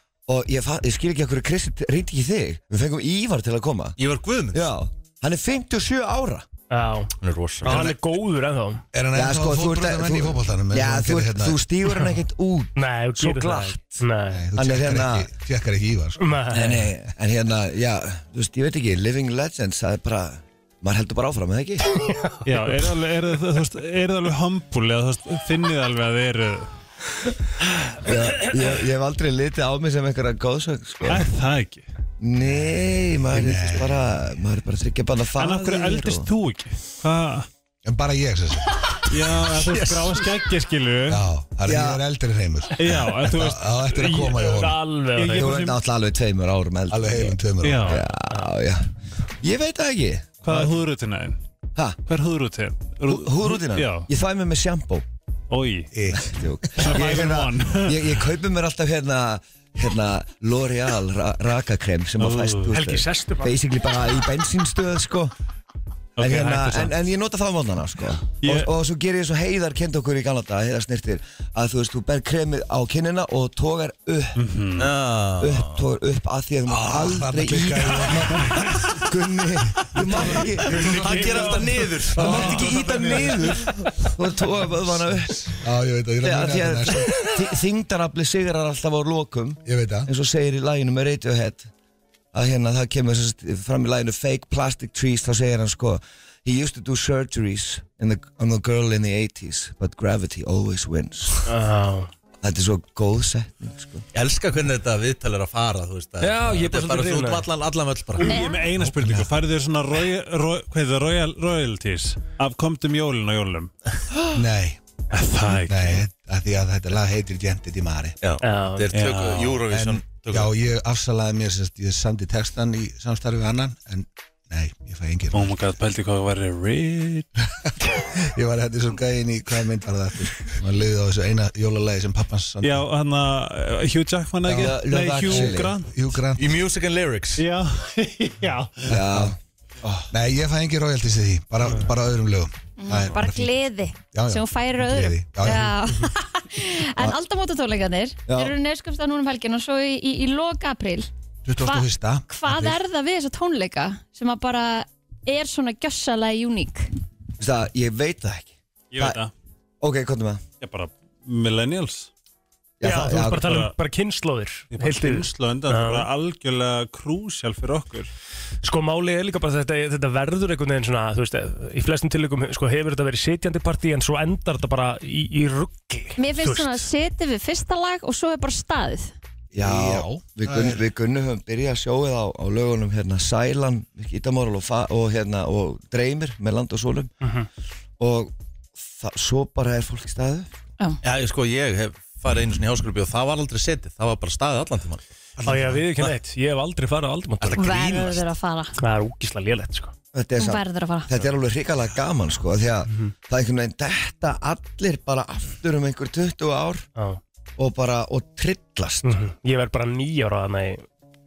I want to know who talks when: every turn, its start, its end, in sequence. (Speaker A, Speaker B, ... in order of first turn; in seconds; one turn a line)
Speaker A: 0.3-4.0
Speaker B: 4.0-4.7
Speaker A: 4.5-6.5
Speaker C: 6.7-7.1
Speaker B: 7.2-8.0
Speaker C: 7.6-8.8
Speaker D: 8.9-11.6
Speaker A: 9.1-15.3
Speaker C: 12.7-14.4
Speaker D: 14.3-16.2
Speaker C: 16.2-16.9
Speaker A: 16.5-21.9
Speaker C: 22.0-22.4
Speaker E: 22.4-26.7
Speaker A: 28.0-31.3
Speaker E: 31.0-31.9
Speaker A: 32.2-36.3
Speaker D: 32.4-34.0
Speaker E: 35.4-37.5
Speaker D: 37.8-39.6
Speaker E: 39.1-41.2
Speaker C: 39.6-40.2
Speaker D: 41.1-44.8
Speaker A: 41.6-42.0
Speaker E: 42.8-44.4
Speaker C: 44.0-45.6
Speaker E: 45.1-45.8
Speaker A: 45.4-48.8
Speaker D: 46.9-47.9
Speaker E: 47.6-48.0
Speaker A: 49.4-50.7
Speaker E: 50.4-51.4
Speaker E: 52.0-54.1
Speaker A: 53.0-55.0
Speaker E: 55.5-55.9
Speaker D: 55.9-56.6
Speaker A: 56.1-65.3
Speaker E: 56.7-58.1
Speaker E: 62.2-62.8
Speaker C: 62.7-63.6
Speaker E: 66.2-67.0
Speaker A: 66.2-74.4
Speaker E: 68.4-68.7
Speaker E: 74.3-74.9
Speaker B: 74.8-75.8
Speaker A: 75.4-81.0
Speaker D: 76.7-79.0
Speaker D: 79.8-84.0
Speaker B: 80.6-83.3
Speaker C: 80.8-81.7
Speaker A: 82.2-85.6
Speaker C: 82.2-82.5
Speaker D: 84.8-87.3
Speaker A: 86.2-91.7
Speaker D: 89.6-90.1
Speaker A: 92.3-101.4
Speaker C: 101.4-102.1
Speaker A: 102.4-104.0
Speaker B: 104.1-108.3
Speaker C: 106.2-107.5
Speaker E: 108.2-113.7
Speaker F: 108.2-108.6
Speaker D: 108.8-109.3
Speaker D: 114.3-114.8
Speaker E: 115.1-116.1
Speaker D: 115.5-118.2
Speaker B: 118.2-120.5
Speaker C: 118.4-118.9
Speaker E: 118.9-119.6
Speaker D: 119.7-125.7
Speaker E: 125.3-127.3
Speaker D: 128.2-132.9
Speaker E: 132.6-136.2
Speaker A: 134.5-135.8
Speaker D: 135.3-136.5
Speaker B: 136.3-137.4
Speaker E: 137.4-139.0
Speaker D: 138.9-143.5
Speaker A: 138.9-139.3
Speaker F: 142.8-156.9
Speaker D: 144.1-146.1
Speaker A: 148.3-148.5
Speaker D: 151.4-152.8
Speaker A: 157.4-159.2
Speaker E: 158.9-159.3
Speaker A: 159.8-160.4
Speaker E: 160.6-162.1
Speaker A: 162.8-163.4
Speaker C: 162.8-166.1
Speaker E: 163.1-163.7
Speaker E: 164.7-168.1
Speaker C: 168.6-176.9
Speaker F: 176.2-179.1
Speaker D: 179.5-180.8
Speaker A: 179.6-187.1
Speaker C: 187.2-187.5
Speaker A: 188.0-190.7
Speaker B: 191.0-195.1
Speaker D: 195.4-195.9
Speaker C: 195.4-197.8
Speaker B: 197.4-198.2
Speaker F: 197.6-198.7
Speaker C: 198.8-199.9
Speaker A: 200.1-206.9
Speaker F: 200.4-201.1
Speaker A: 207.6-209.1
Speaker C: 209.0-210.8